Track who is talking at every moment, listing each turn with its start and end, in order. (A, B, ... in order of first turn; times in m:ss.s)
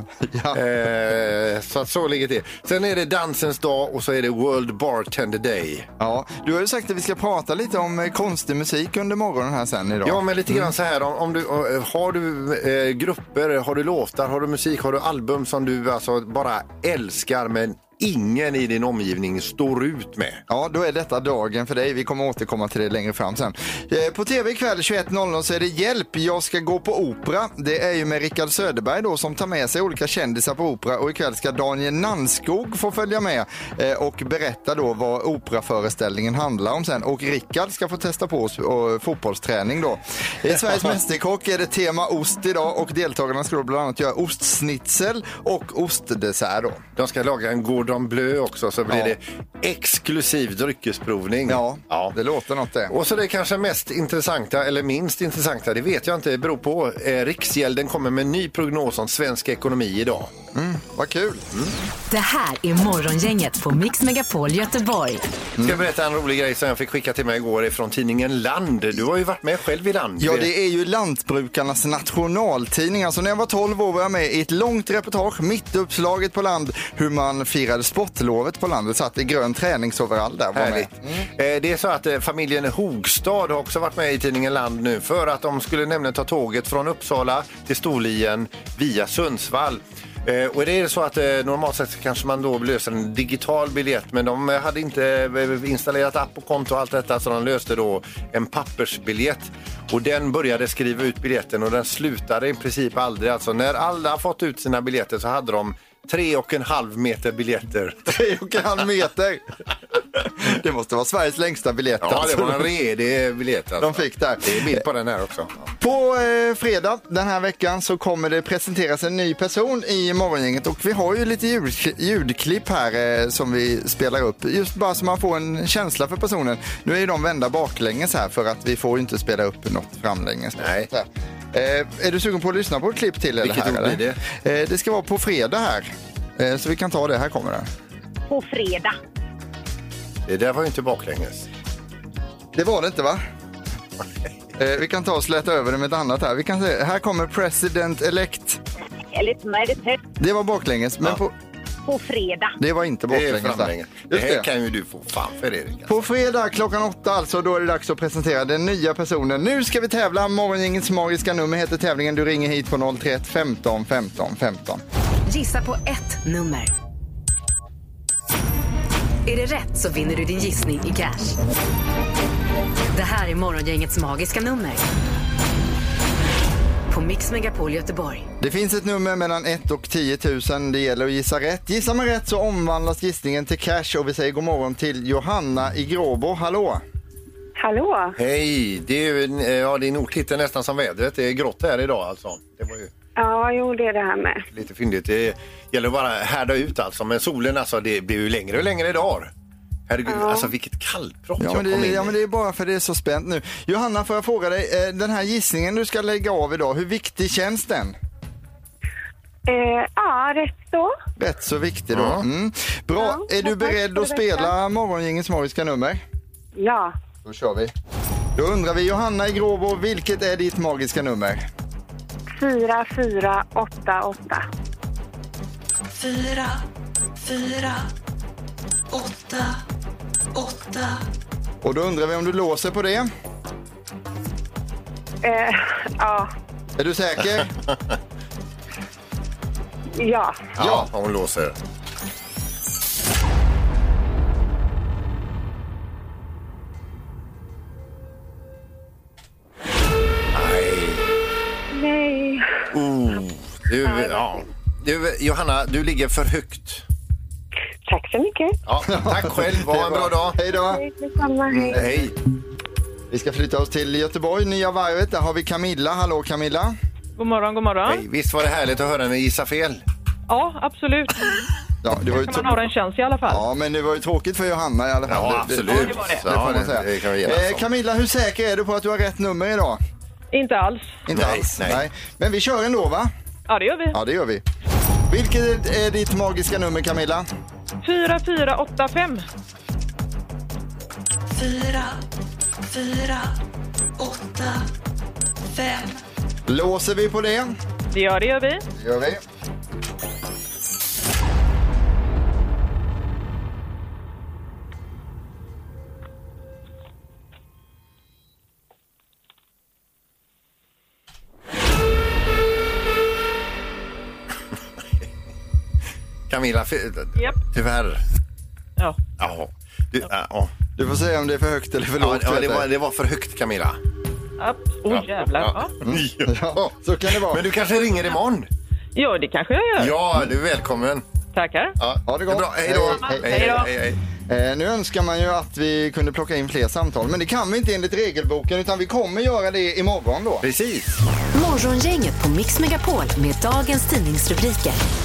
0:00.2-0:00.6 A
0:00.5-0:05.9 B
0:06.0-0:10.7 A
0:10.0-0:20.4 B
0:20.5-0:46.8 A
0:47.0-0:52.2 B
0:48.9-0:49.2 A
0:51.5-0:52.9 A
0:52.9-1:00.3 B
1:00.5-1:01.4 A
1:02.1-1:05.2 C
1:05.6-1:10.5 B
1:10.2-1:21.3 A
1:20.6-1:48.1 B
1:48.1-1:49.5 A
1:50.1-1:52.7 A
1:52.0-1:55.5 B
1:53.8-1:54.8 A
1:55.8-2:17.7 A
2:10.6-2:10.9 B
2:13.4-2:14.2 B
2:18.3-2:18.9 D
2:20.3-2:21.5 B
2:22.6-2:23.2 A
2:24.6-2:28.6 A
2:29.2-2:29.9 D
2:30.2-2:31.3 A
2:31.9-2:32.6 D
2:32.6-2:34.5 A
2:33.1-2:35.9 B
2:35.9-2:44.8 A
2:45.3-2:46.7 C
2:49.3-2:51.4 C
2:52.9-2:54.8 C
2:56.9-2:58.3 C
2:58.4-3:06.8 A
3:07.6-3:08.1 E
3:08.2-3:12.9 B
3:13.2-3:14.4 E
3:14.5-3:19.3 B
3:19.9-3:22.2 B
3:20.1-3:20.5 E
3:21.4-3:28.0 A
3:29.5-3:31.0 E
3:31.2-3:36.0 A
3:31.9-3:32.2 B
3:33.0-3:34.5 E
3:36.6-3:37.0 E
3:37.2-3:37.7 A
3:38.4-3:41.5 A
3:42.4-3:44.4 E
3:45.9-3:46.6 F
3:47.2-3:47.9 F
3:48.9-3:49.6 F
3:50.3-3:51.1 F
3:51.6-3:53.1 A
3:55.2-3:56.3 E
3:56.8-3:57.5 A
4:00.0-4:00.4 E
4:00.6-4:01.6 B
4:00.6-4:00.9 A
4:10.3-4:11.1 B
4:11.7-4:12.6 E
4:12.7-4:16.8 B
4:13.8-4:14.4 E
4:17.9-4:18.6 E
4:18.7-4:20.4 B
4:18.9-4:20.8 A
4:20.5-4:21.8 E
4:21.5-4:22.1 B
4:21.7-4:22.1 A
4:23.1-4:26.8 A
4:27.2-4:28.0 G
4:27.8-4:29.8 B
4:30.3-4:31.2 G
4:31.8-4:32.6 A
4:32.1-4:33.4 G
4:33.3-4:39.8 A
4:35.1-4:37.6 B
4:35.7-4:36.2 G
4:40.3-4:41.0 G
4:41.1-4:43.1 A
4:41.1-4:41.8 B
4:43.5-4:44.0 G
4:43.9-4:44.4 A
4:45.1-4:47.3 A
4:47.8-4:49.2 G
4:51.3-4:52.0 F
4:52.6-4:53.4 F
4:54.0-4:54.7 F
4:55.4-4:56.0 F
4:56.5-4:57.5 A
4:57.9-4:58.6 G
4:58.8-4:59.2 A
5:16.3-5:18.0 B
5:19.2-5:20.5 B
5:20.8-5:22.7 A
5:22.0-5:23.8 B
5:24.4-5:25.7 G
5:24.9-5:28.5 B
5:25.8-5:27.4 A
5:29.0-5:30.0 G
5:29.8-5:31.0 B
5:31.3-5:31.8 G
5:31.8-5:34.0 B
5:32.1-5:33.5 A
5:33.2-5:33.7 G
5:34.3-5:40.5 A
5:40.4-5:41.0 B
5:41.3-5:44.8 C